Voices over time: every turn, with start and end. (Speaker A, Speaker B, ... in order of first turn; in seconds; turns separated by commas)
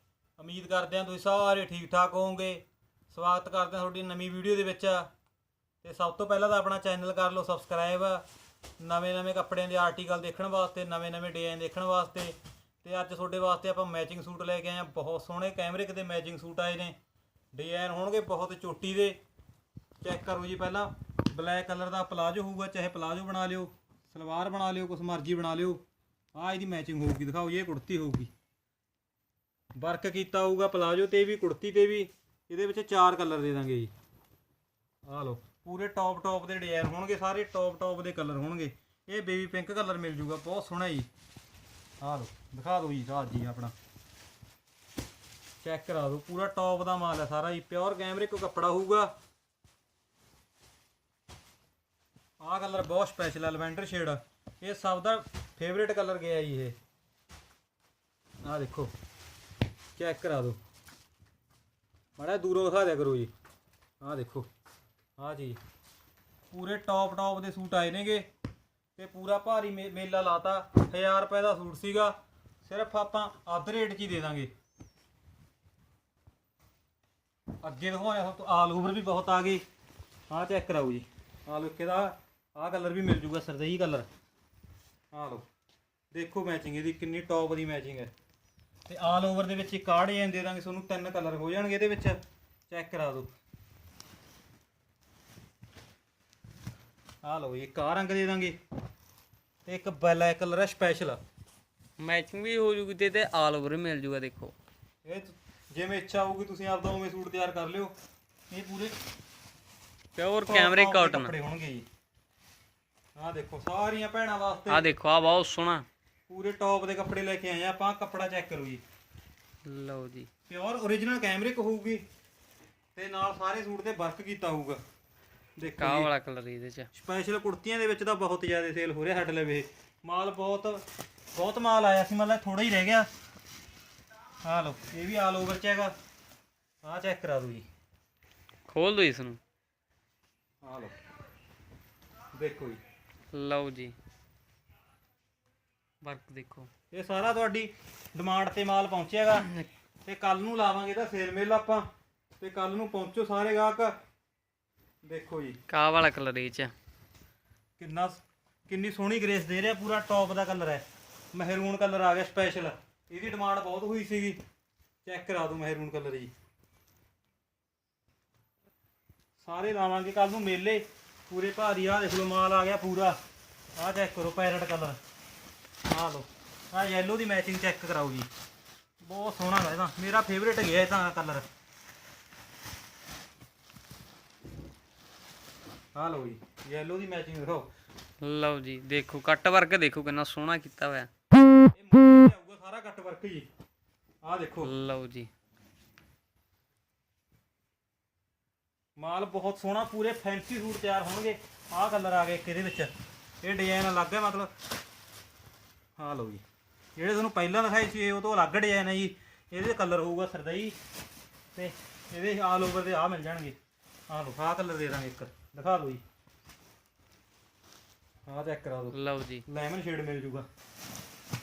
Speaker A: 0.4-5.1, Speaker A: 5.8-8.2, Speaker A: 8.8-16.9, Speaker A: 17.5-19.2, Speaker A: 20.0-25.8, Speaker A: 26.4-28.3, Speaker A: 29.8-33.9, Speaker A: 35.1-41.1, Speaker A: 42.0-43.7, Speaker A: 45.6-49.1, Speaker A: 52.4-56.8, Speaker A: 58.4-58.9, Speaker A: 60.0-60.6, Speaker A: 62.2-63.3, Speaker A: 64.0-64.5, Speaker A: 65.2-65.6, Speaker A: 66.5-68.3, Speaker A: 69.0-74.5, Speaker A: 77.6-79.6, Speaker A: 80.3-84.1, Speaker A: 85.1-85.5, Speaker A: 86.1-88.1, Speaker A: 88.9-93.3, Speaker A: 97.2-98.6, Speaker A: 99.7-101.2, Speaker B: 102.0-104.5, Speaker A: 105.0-107.9, Speaker A: 108.5-108.9, Speaker B: 110.2-111.3, Speaker A: 110.5-111.9, Speaker A: 113.2-114.9, Speaker B: 114.7-115.9, Speaker A: 116.3-118.8, Speaker B: 119.7-120.3, Speaker A: 120.5-122.0, Speaker A: 123.0-124.8, Speaker A: 125.6-126.1, Speaker B: 125.8-126.9, Speaker A: 126.9-130.8, Speaker A: 131.3-133.1, Speaker A: 134.4-135.9, Speaker A: 136.8-137.7, Speaker B: 138.7-139.4, Speaker A: 140.6-140.9, Speaker A: 142.3-142.8, Speaker B: 143.3-143.9, Speaker B: 146.0-146.7, Speaker A: 146.9-149.5, Speaker A: 150.1-151.9, Speaker A: 152.4-154.0, Speaker A: 155.0-155.6, Speaker B: 155.7-156.7, Speaker A: 157.8-164.4, Speaker A: 165.1-166.3, Speaker A: 169.4-173.2, Speaker A: 173.8-175.0, Speaker A: 175.9-178.3, Speaker A: 179.0-181.4, Speaker A: 185.9-187.7, Speaker B: 188.2-191.1, Speaker A: 191.7-193.5, Speaker A: 194.2-194.7, Speaker B: 194.6-195.3, Speaker A: 199.0-204.5, Speaker A: 206.0-206.4, Speaker A: 207.0-210.8, Speaker A: 211.6-213.6, Speaker A: 214.1-216.0, Speaker A: 218.3-220.5, Speaker B: 218.9-219.4